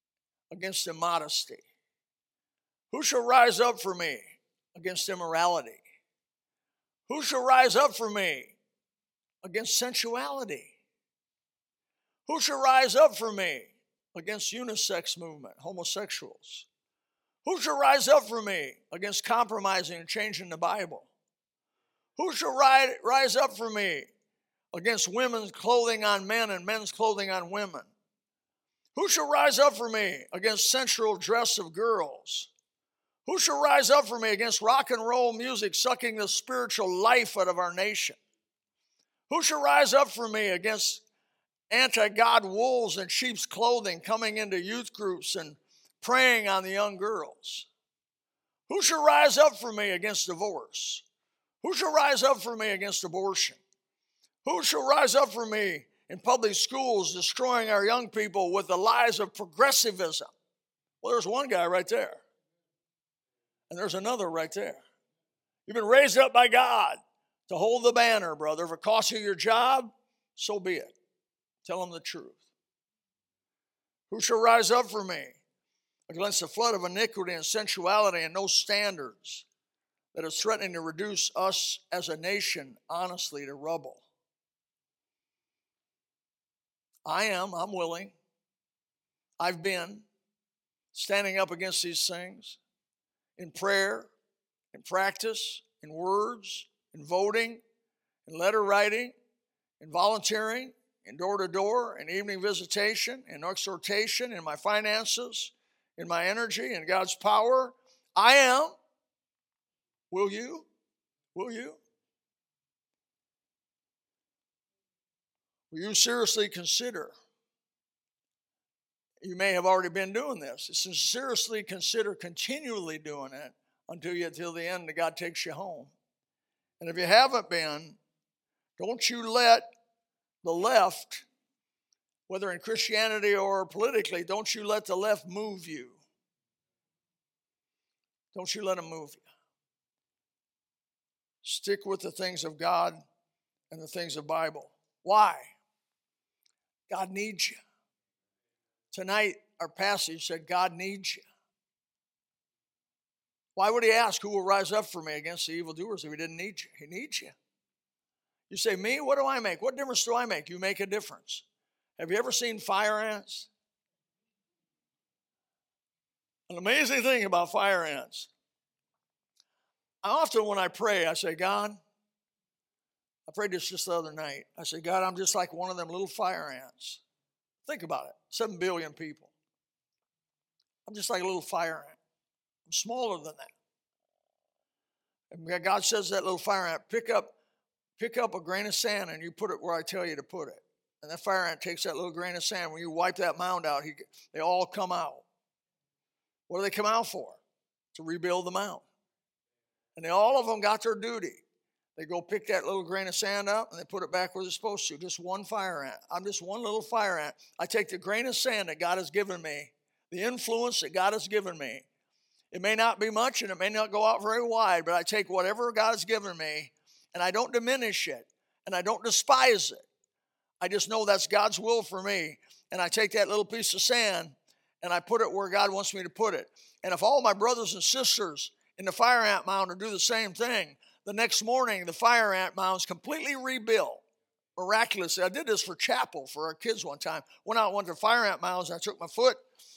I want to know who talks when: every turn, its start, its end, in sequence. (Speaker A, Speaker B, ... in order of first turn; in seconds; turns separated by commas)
Speaker A: 0.5-1.6, Speaker A: 2.9-5.8, Speaker A: 7.1-8.6, Speaker A: 9.4-10.7, Speaker A: 12.3-16.7, Speaker A: 17.4-21.1, Speaker A: 22.2-24.1, Speaker A: 24.7-27.9, Speaker A: 28.9-32.5, Speaker A: 33.3-38.2, Speaker A: 39.3-41.0, Speaker A: 41.7-47.7, Speaker A: 48.7-51.0, Speaker A: 51.6-53.6, Speaker A: 54.5-60.3, Speaker A: 61.0-62.2, Speaker A: 63.7-64.8, Speaker A: 65.7-70.9, Speaker A: 71.7-72.4, Speaker A: 74.1-75.4, Speaker A: 76.1-79.5, Speaker A: 80.1-84.0, Speaker A: 87.0-88.2, Speaker A: 89.4-90.1, Speaker A: 90.9-92.6, Speaker A: 93.4-94.1, Speaker A: 94.7-97.6, Speaker A: 98.3-99.2, Speaker A: 99.8-108.8, Speaker A: 110.1-110.7, Speaker A: 111.3-111.8, Speaker A: 115.7-117.2, Speaker A: 119.2-125.9, Speaker A: 126.8-128.0, Speaker A: 128.8-129.7, Speaker A: 130.4-131.3, Speaker A: 132.3-136.0, Speaker A: 138.3-139.2, Speaker A: 141.4-143.0, Speaker A: 143.7-145.6, Speaker A: 146.9-147.6, Speaker A: 148.9-151.2, Speaker A: 153.6-157.3, Speaker A: 158.5-161.4, Speaker A: 162.0-163.5, Speaker A: 166.5-168.3, Speaker A: 170.0-171.8, Speaker A: 173.3-177.0, Speaker A: 177.7-179.3, Speaker A: 180.9-182.0, Speaker A: 182.7-183.5, Speaker A: 185.3-187.3, Speaker A: 188.0-195.2, Speaker A: 196.5-197.4, Speaker A: 197.9-198.8, Speaker A: 200.0-201.4, Speaker A: 202.0-211.8, Speaker A: 212.5-219.8, Speaker A: 220.6-234.0, Speaker A: 234.6-239.4